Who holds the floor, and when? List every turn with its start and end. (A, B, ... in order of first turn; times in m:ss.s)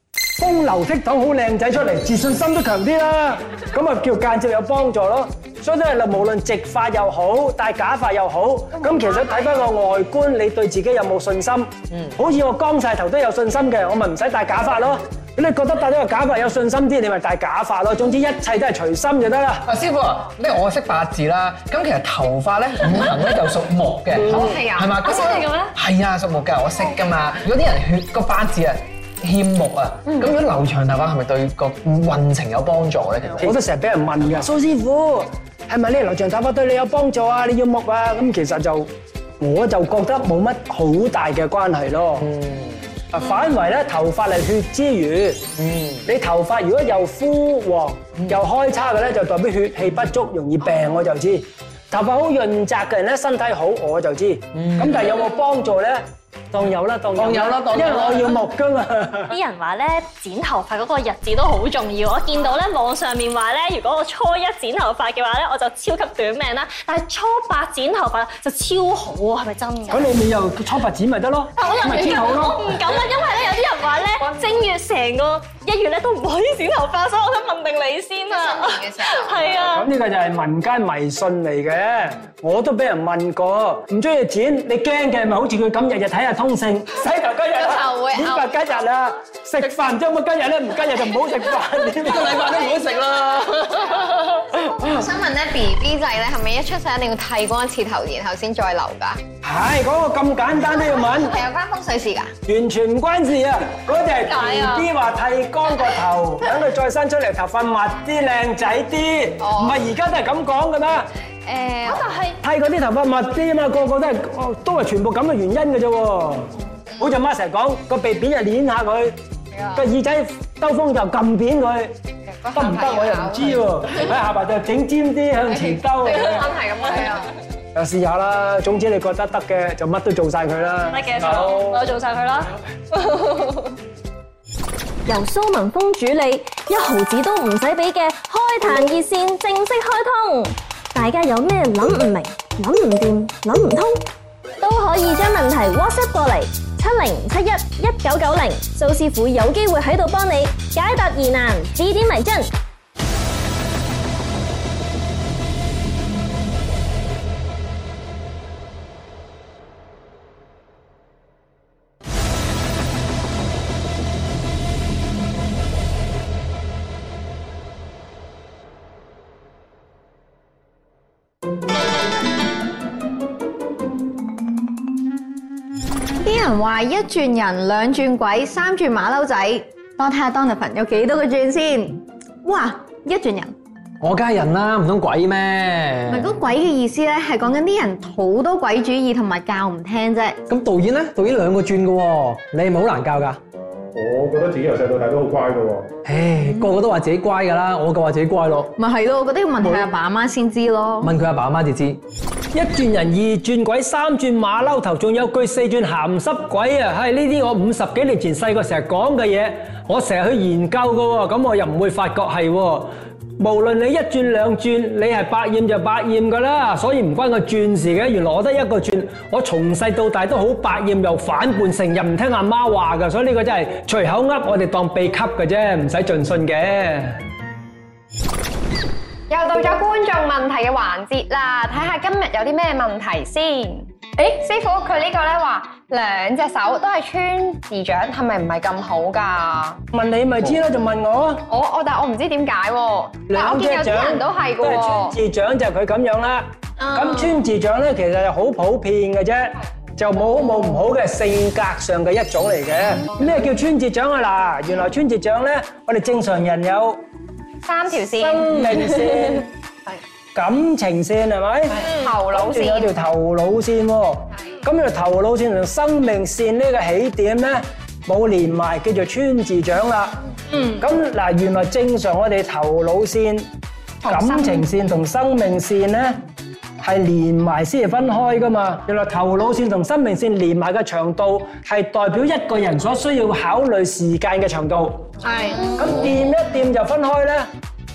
0:00.4-0:19.7 A
0:19.7-0:33.6 B
0:24.2-0:25.5 C
0:25.0-0:25.7 D
0:33.4-0:42.3 A
0:42.2-0:42.8 B
0:43.1-0:45.5 A
0:45.6-0:46.0 B
0:46.0-0:59.3 A
0:54.5-0:55.0 B
0:57.2-0:58.4 B
0:59.3-1:10.1 D
1:09.9-1:12.8 A
1:11.6-1:19.9 D
1:18.3-1:19.4 E
1:19.6-1:32.7 A
1:27.6-1:28.5 E
1:32.0-1:34.3 B
1:34.7-1:39.2 E
1:39.4-1:41.4 A
1:40.9-1:42.4 E
1:42.5-1:51.1 A
1:44.3-1:44.9 D
1:51.5-1:51.9 C
1:51.5-1:52.0 E
1:51.8-1:52.4 D
1:52.4-1:59.2 A
1:59.6-1:59.8 C
1:59.7-2:02.0 A
2:02.3-2:04.0 C
2:02.5-2:06.6 A
2:05.5-2:07.3 C
2:07.8-2:11.8 A
2:10.9-2:13.7 D
2:15.1-2:24.1 D
2:24.6-2:32.5 D
2:56.2-3:03.5 E
3:04.0-3:06.3 B
3:06.1-3:10.4 E
3:10.5-3:13.4 B
3:14.0-3:15.9 F
3:16.0-3:18.8 B
3:18.8-3:21.1 E
3:21.0-3:22.0 B
3:22.5-3:47.2 A
3:49.3-3:59.8 C
3:59.9-4:01.5 A
4:01.5-4:05.2 C
4:03.3-4:17.0 A
4:17.6-4:19.2 C
4:18.1-4:19.5 A
4:20.4-4:33.5 A
4:21.8-4:22.9 C
4:34.0-4:36.2 A
4:36.8-4:45.2 A
4:45.2-4:45.8 E
4:45.3-4:45.8 C
4:45.8-4:47.5 A